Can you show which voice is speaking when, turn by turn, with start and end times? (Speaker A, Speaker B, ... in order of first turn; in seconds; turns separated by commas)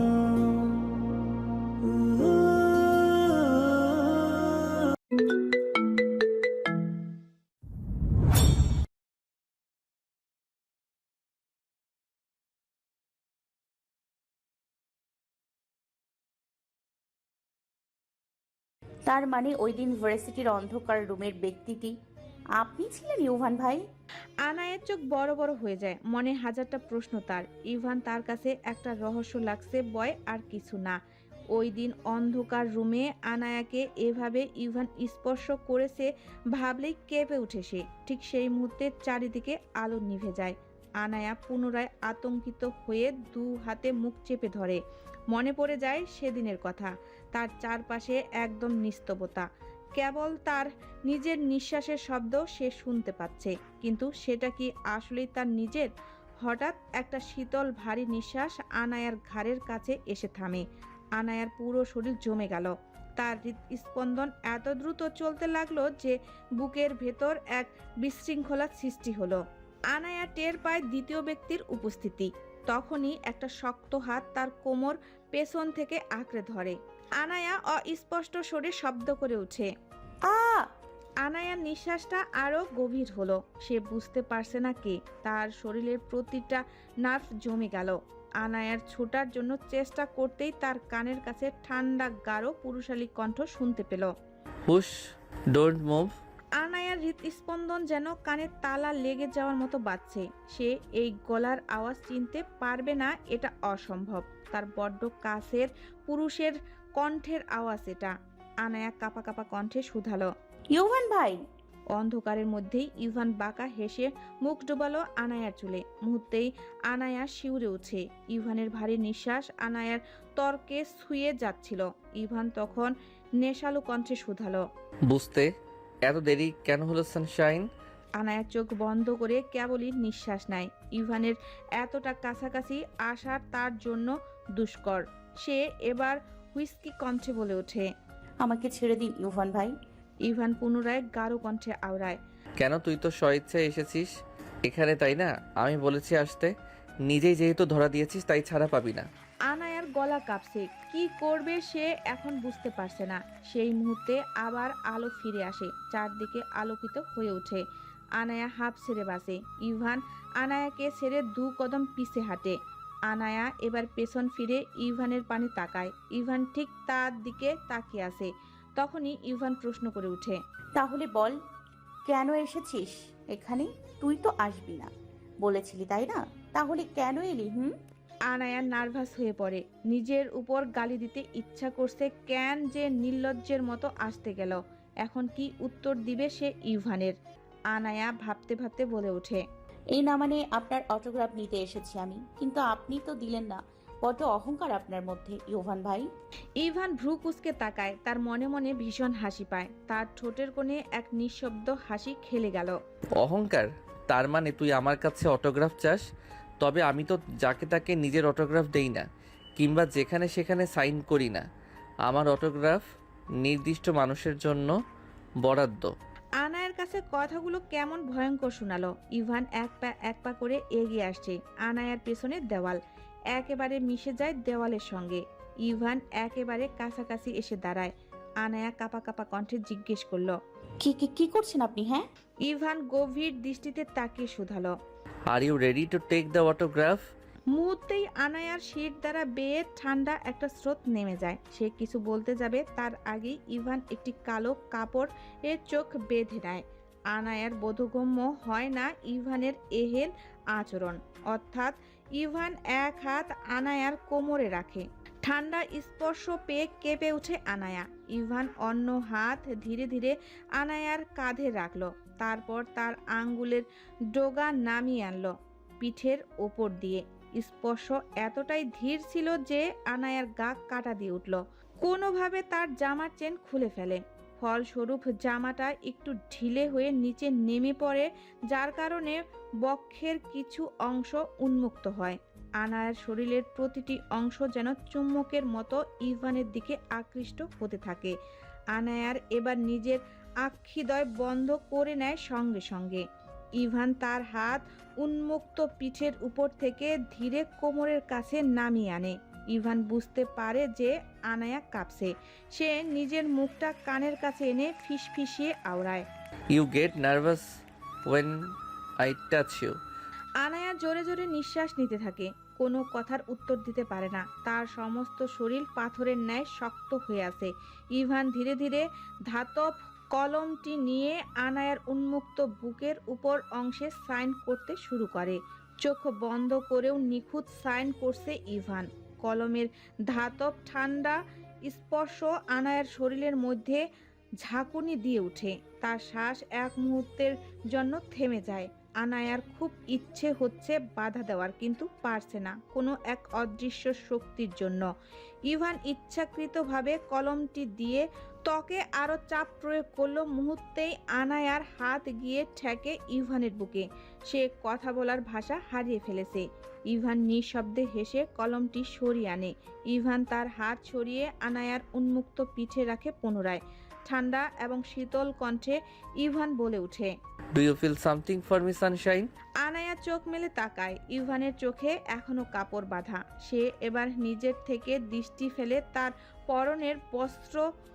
Speaker A: 19.1-21.9, Speaker A: 22.6-23.8, Speaker B: 24.4-31.0, Speaker B: 31.5-44.8, Speaker B: 45.3-49.5, Speaker B: 50.0-55.9, Speaker B: 56.4-60.6, Speaker B: 61.2-69.4, Speaker B: 69.9-79.7, Speaker A: 80.3-80.7, Speaker B: 81.2-94.1, Speaker C: 94.7-94.9, Speaker C: 95.5-96.1, Speaker B: 96.6-108.1, Speaker B: 108.6-110.3, Speaker A: 110.8-111.4, Speaker B: 112.0-124.6, Speaker C: 125.1-125.5, Speaker C: 126.1-127.7, Speaker B: 128.2-137.9, Speaker A: 138.4-139.7, Speaker B: 140.3-142.2, Speaker C: 142.6-144.1, Speaker C: 144.7-146.5, Speaker C: 147.1-149.1, Speaker B: 149.5-157.6, Speaker B: 158.2-162.6, Speaker B: 163.1-170.4, Speaker A: 170.8-171.3, Speaker A: 172.1-174.9, Speaker A: 175.4-177.7, Speaker B: 178.3-187.2, Speaker B: 187.7-189.4, Speaker A: 189.9-196.1, Speaker B: 196.6-202.8, Speaker C: 203.2-206.0, Speaker C: 206.6-211.5, Speaker C: 212.1-212.8, Speaker C: 213.4-214.7, Speaker C: 215.4-215.9, Speaker B: 216.4-222.8, Speaker B: 223.3-227.9, Speaker B: 228.4-230.4, Speaker A: 230.8-232.1, Speaker B: 232.5-234.7, Speaker C: 235.3-237.0, Speaker B: 237.5-288.1, Speaker B: 288.7-293.0, Speaker B: 293.6-306.1, Speaker C: 306.5-307.4, Speaker C: 308.1-308.3, Speaker C: 309.0-309.8, Speaker B: 310.4-333.8, Speaker B: 334.4-344.9, Speaker B: 345.5-367.1, Speaker C: 367.6-369.3, Speaker B: 369.6-377.6